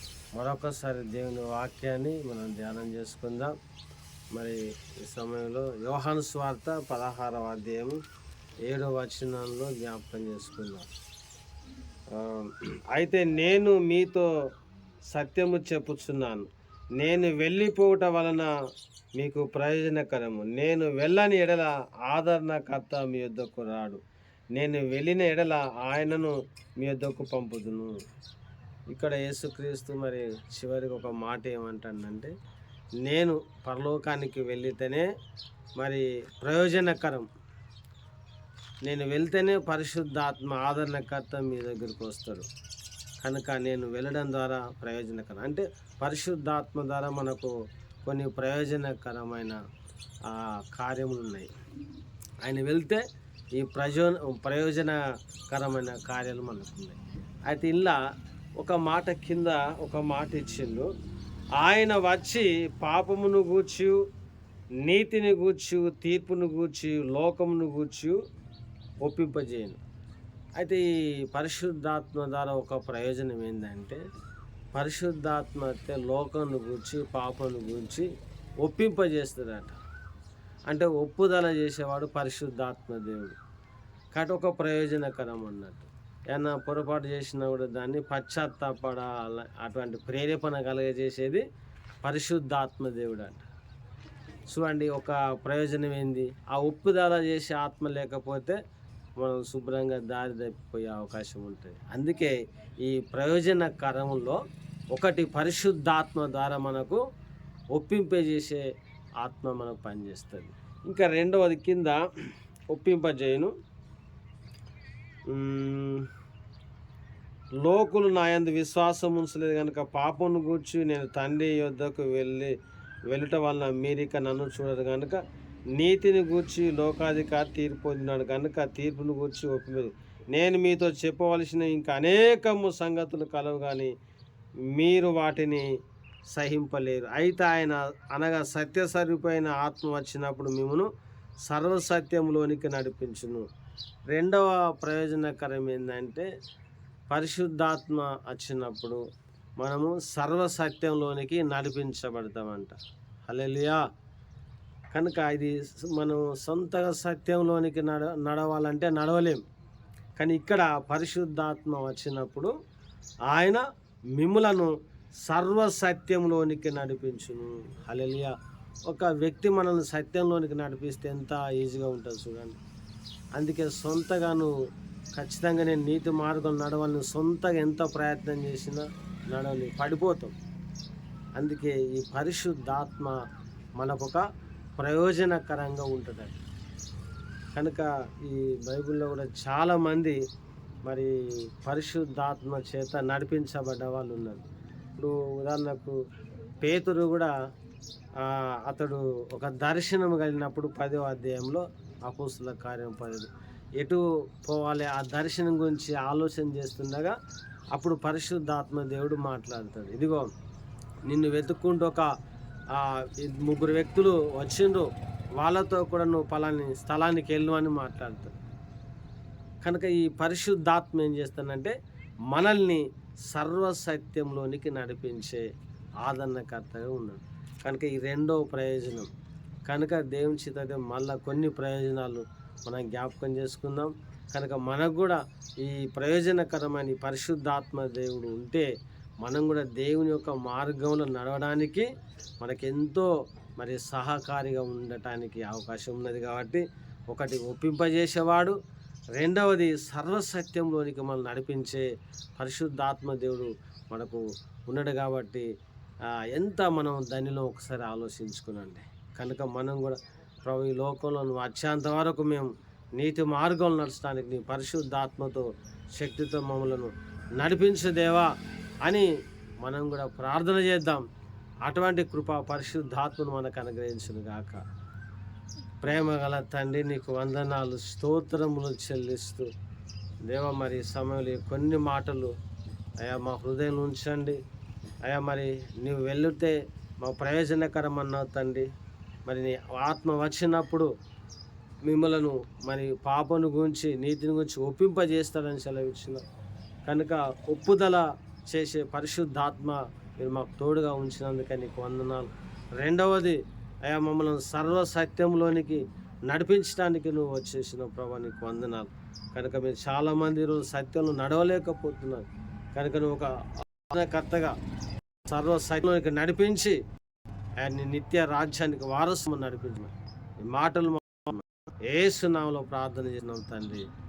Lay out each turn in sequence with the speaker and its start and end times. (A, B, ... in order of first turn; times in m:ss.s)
0:00.3-0:03.5 A
0:04.3-0:08.0 A
0:08.6-0:10.9 A
0:12.1-0:14.3 A
0:15.1-0:18.5 A
0:19.2-0:24.0 A
0:24.6-0:28.0 A
0:28.9-0:32.3 A
0:33.0-0:35.1 A
0:35.8-0:37.3 A
0:38.8-0:42.5 A
0:43.2-0:47.5 A
0:48.0-0:49.6 A
0:50.2-0:51.5 A
0:52.4-0:53.0 A
0:53.6-0:58.0 A
0:58.6-1:00.9 A
1:01.6-1:04.0 A
1:04.8-1:08.2 A
1:09.0-1:09.8 A
1:10.6-1:14.0 A
1:14.7-1:18.1 A
1:18.6-1:19.8 A
1:20.7-1:23.4 A
1:24.1-1:31.4 A
1:32.0-1:33.4 A
1:34.5-1:38.6 A
1:39.2-1:44.4 A
1:44.9-1:47.0 A
1:47.7-1:48.6 A
1:49.2-1:52.0 A
1:52.7-1:53.5 A
1:55.3-1:56.1 A
1:57.6-2:02.5 A
2:03.1-2:05.2 A
2:05.7-2:13.9 A
2:14.7-2:15.7 A
2:16.3-2:20.9 A
2:21.5-2:23.4 A
2:24.1-2:26.3 A
2:27.1-2:29.0 A
2:29.6-2:32.7 A
2:33.3-2:33.8 A
2:34.9-2:39.4 A
2:40.2-2:42.5 A
2:43.3-2:43.6 A
2:44.2-2:48.3 A
2:48.9-2:52.6 A
2:53.4-2:54.5 A
2:55.2-3:00.3 A
3:01.4-3:03.2 A
3:03.8-3:04.2 A
3:04.8-3:06.4 A
3:07.5-3:10.2 A
3:10.8-3:14.4 A
3:15.0-3:16.0 A
3:16.6-3:17.3 A
3:18.2-3:27.1 A
3:27.7-3:30.3 A
3:31.1-3:32.1 A
3:32.7-3:38.3 A
3:39.6-3:41.8 A
3:42.3-3:45.5 A
3:46.0-3:49.1 A
3:49.7-3:58.7 A
3:59.2-4:01.9 A
4:02.4-4:08.6 A
4:09.2-4:11.8 A
4:12.4-4:15.4 A
4:16.3-4:28.3 A
4:29.6-4:31.0 A
4:31.6-4:34.6 A
4:35.8-4:39.5 A
4:40.3-4:42.3 A
4:43.0-4:44.4 A
4:45.0-4:48.7 A
4:49.3-4:50.9 A
4:51.8-4:56.2 A
4:56.9-5:14.5 A
5:15.2-5:16.8 A
5:17.6-5:19.9 A
5:20.4-5:23.8 A